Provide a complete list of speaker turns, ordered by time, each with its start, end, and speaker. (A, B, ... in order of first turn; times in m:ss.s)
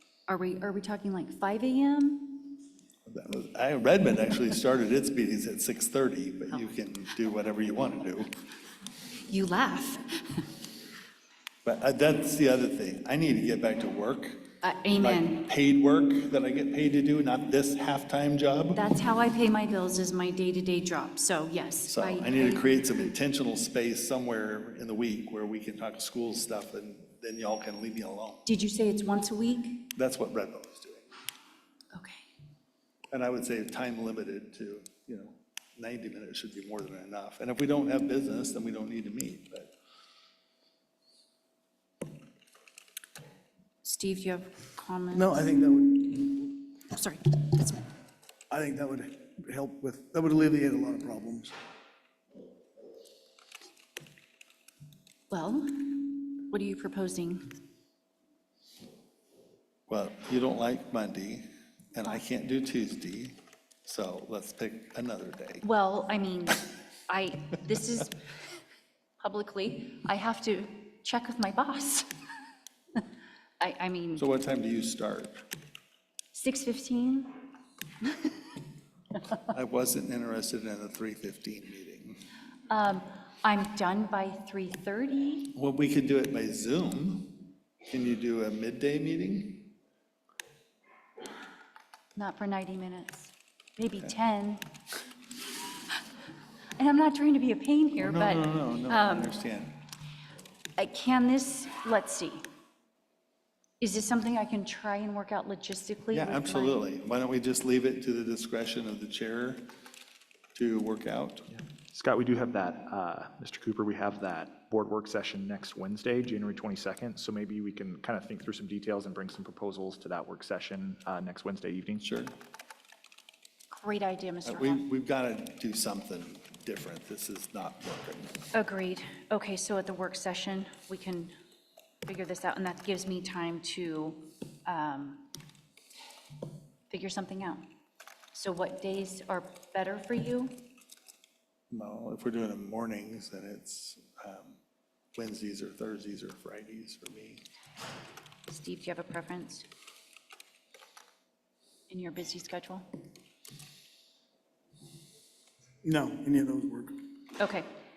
0:00.3-0:02.5 A
0:03.1-0:08.3 B
0:09.2-0:10.4 A
0:11.6-0:14.4 B
0:14.6-0:15.4 A
0:15.0-0:18.8 B
0:18.8-0:23.0 A
0:21.9-0:28.4 B
0:28.5-0:29.9 A
0:30.0-0:31.1 B
0:31.9-0:32.2 A
0:33.1-0:39.7 B
0:43.8-0:47.8 A
0:45.1-0:46.2 C
0:48.5-0:51.6 C
0:55.3-0:57.5 A
0:59.9-1:05.7 B
1:05.6-1:08.2 A
1:09.2-1:12.1 A
1:13.6-1:14.2 A
1:14.2-1:15.4 B
1:16.3-1:17.4 A
1:18.0-1:18.3 A
1:19.5-1:22.2 B
1:22.7-1:25.5 A
1:25.6-1:29.7 B
1:32.2-1:34.6 A
1:36.8-1:39.3 A
1:38.0-1:39.8 B
1:40.8-1:42.5 A
1:43.8-1:46.8 A
1:46.1-1:49.7 B
1:50.5-1:51.5 B
1:51.6-2:02.0 D
2:02.0-2:02.3 B
2:03.7-2:04.8 A
2:04.4-2:08.5 B
2:08.5-2:11.4 A
2:12.0-2:15.3 A
2:16.9-2:17.7 A
2:18.3-2:20.6 A
2:21.7-2:24.6 B
2:25.2-2:27.4 B
2:28.5-2:29.7 A
2:31.9-2:32.9 A
2:35.8-2:36.9 C
2:37.4-2:37.7 A